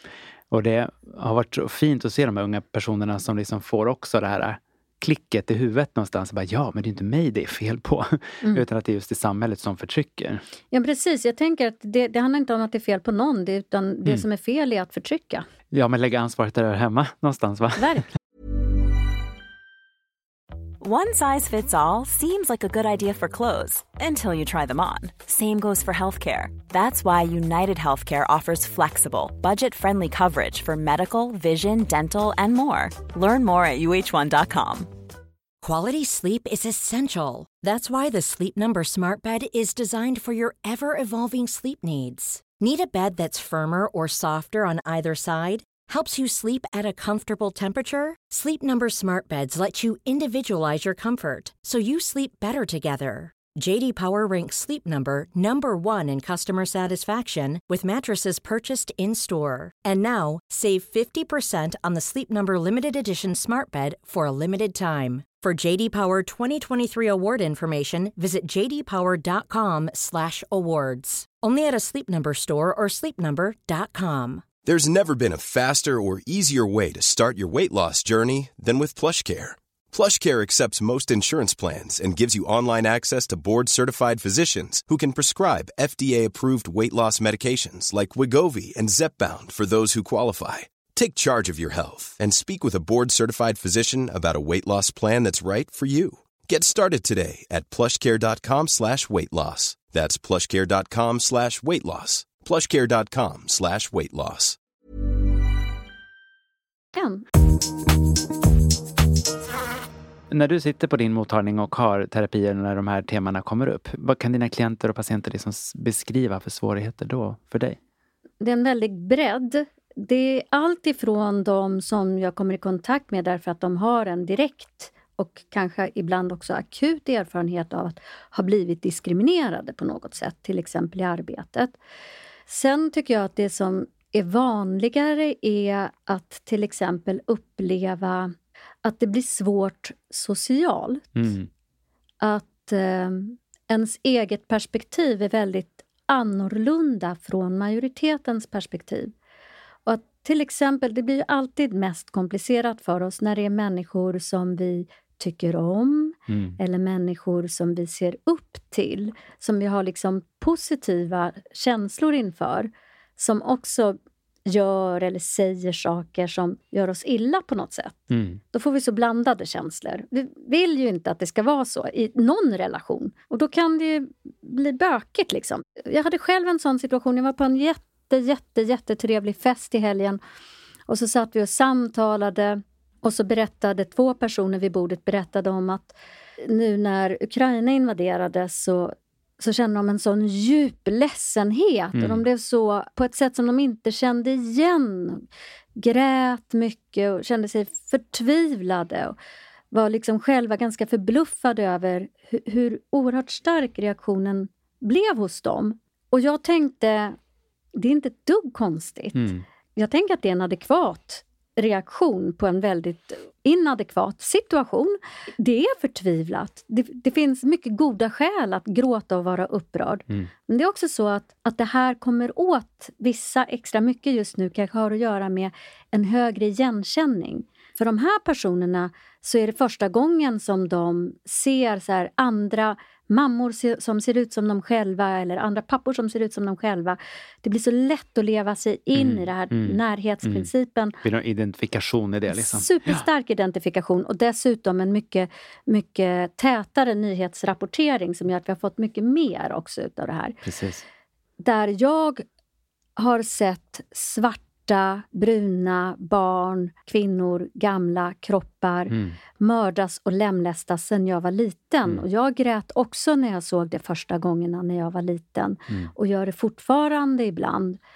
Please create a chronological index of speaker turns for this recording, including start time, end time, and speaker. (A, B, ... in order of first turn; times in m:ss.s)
0:00.5-0:10.4 A
0:10.7-0:15.4 B
0:15.7-0:18.1 A
0:17.8-0:18.0 B
0:20.8-0:34.9 C
0:35.6-1:14.4 D
1:14.6-1:44.6 E
1:46.9-1:47.2 B
1:50.3-1:57.8 A
1:58.4-2:11.8 B
2:12.5-2:21.2 B
2:21.1-2:21.5 A
2:22.2-2:29.1 B
2:29.8-3:00.2 B
2:36.3-2:36.6 A
2:48.1-2:48.4 A
3:00.9-3:19.2 B
3:11.9-3:12.2 A
3:19.7-3:27.2 B
3:27.7-4:01.0 B
3:29.1-3:29.4 A
3:58.9-4:00.5 A
4:01.0-4:03.0 A
4:02.3-4:10.4 B
4:10.4-4:10.8 A
4:11.4-4:12.2 B
4:13.0-4:27.8 B
4:18.9-4:19.2 A